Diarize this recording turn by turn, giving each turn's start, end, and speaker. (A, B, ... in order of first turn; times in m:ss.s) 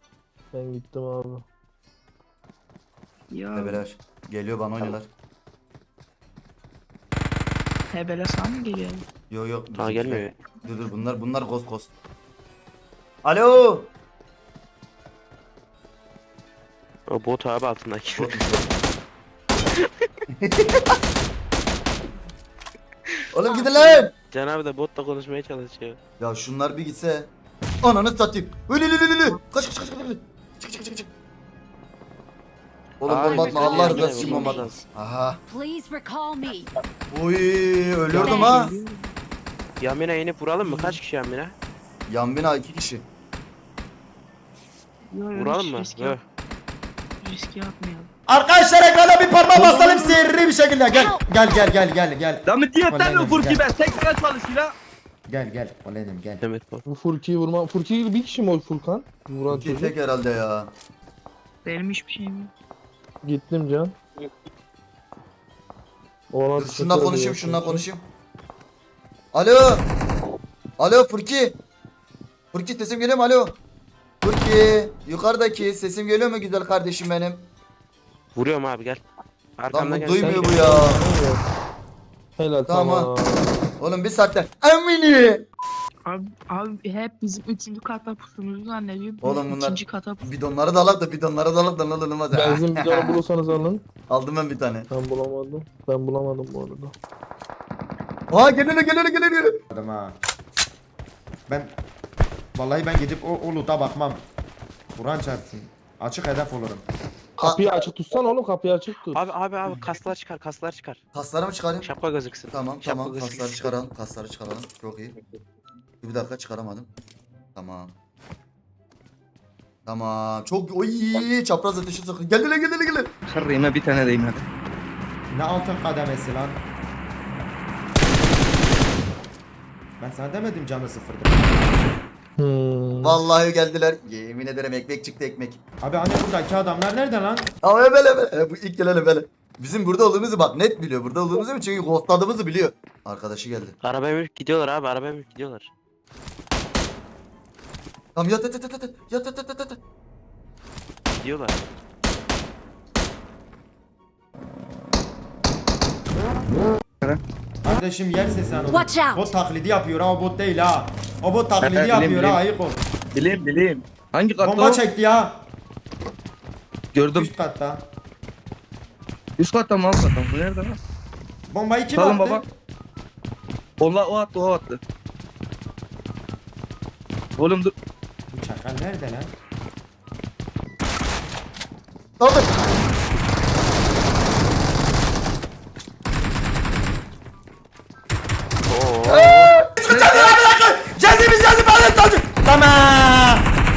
0:00.5-0:01.4 A
0:03.3-0:03.8 B
0:03.5-0:05.1 C
0:07.9-0:09.0 B
0:09.3-0:11.9 C
0:09.7-0:10.3 D
0:13.2-0:13.9 C
0:17.1-0:18.4 D
0:18.2-0:18.7 C
0:20.4-0:20.9 C
0:23.3-0:24.1 C
0:23.5-0:24.1 E
0:24.3-0:26.0 D
0:26.2-0:27.3 C
0:27.8-0:31.1 C
0:33.0-0:35.4 C
0:33.0-0:34.8 D
0:33.1-0:34.8 E
0:35.5-0:36.7 E
0:37.1-0:38.7 C
0:38.1-0:39.1 B
0:38.2-0:38.6 E
0:39.8-0:41.5 D
0:40.6-0:40.9 C
0:42.1-0:43.0 C
0:45.1-0:46.2 B
0:45.3-0:46.2 D
0:47.2-0:48.1 B
0:48.3-0:53.6 F
0:52.4-0:54.8 G
0:55.3-0:56.4 F
0:56.4-0:56.8 D
0:56.8-0:59.9 A
0:59.5-1:00.7 C
1:01.6-1:02.5 B
1:03.2-1:03.9 A
1:06.3-1:07.8 A
1:06.5-1:08.0 C
1:09.3-1:09.8 C
1:10.8-1:11.6 C
1:12.5-1:13.6 C
1:14.2-1:17.5 C
1:18.3-1:19.0 D
1:19.6-1:20.8 D
1:19.7-1:21.0 C
1:20.1-1:21.4 A
1:22.4-1:23.6 A
1:22.7-1:23.1 C
1:23.8-1:25.4 C
1:26.0-1:30.3 B
1:29.2-1:33.2 C
1:32.3-1:33.8 A
1:34.1-1:34.9 C
1:34.9-1:36.9 A
1:38.3-1:39.6 C
1:39.7-1:40.2 F
1:41.5-1:41.7 F
1:42.6-1:44.2 F
1:45.0-1:46.8 F
1:47.4-1:49.2 A
1:47.4-1:47.7 C
1:49.1-1:51.0 D
1:51.1-1:51.9 C
1:51.8-1:53.8 D
1:52.5-1:55.1 C
1:56.0-1:56.9 C
1:57.6-1:57.9 C
1:59.8-2:03.1 C
2:03.2-2:04.4 G
2:05.3-2:06.6 F
2:10.0-2:11.6 F
2:12.4-2:13.2 A
2:13.0-2:15.6 C
2:15.8-2:17.5 F
2:17.6-2:23.7 C
2:23.8-2:25.7 D
2:28.1-2:29.8 C
2:31.2-2:31.6 D
2:37.6-2:42.8 F
2:38.7-2:39.2 E
2:41.6-2:42.4 G
2:43.1-2:44.8 G
2:44.4-2:45.4 F
2:46.9-2:47.3 G
2:47.1-2:47.8 F
2:49.4-2:50.8 G
2:51.5-2:52.4 F
2:52.0-2:52.4 G
2:53.8-2:54.8 G
2:57.4-2:57.7 G
2:58.3-2:59.3 F
3:02.2-3:02.5 C
3:08.7-3:09.5 D
3:09.1-3:09.7 C
3:09.8-3:13.4 F
3:09.9-3:10.3 G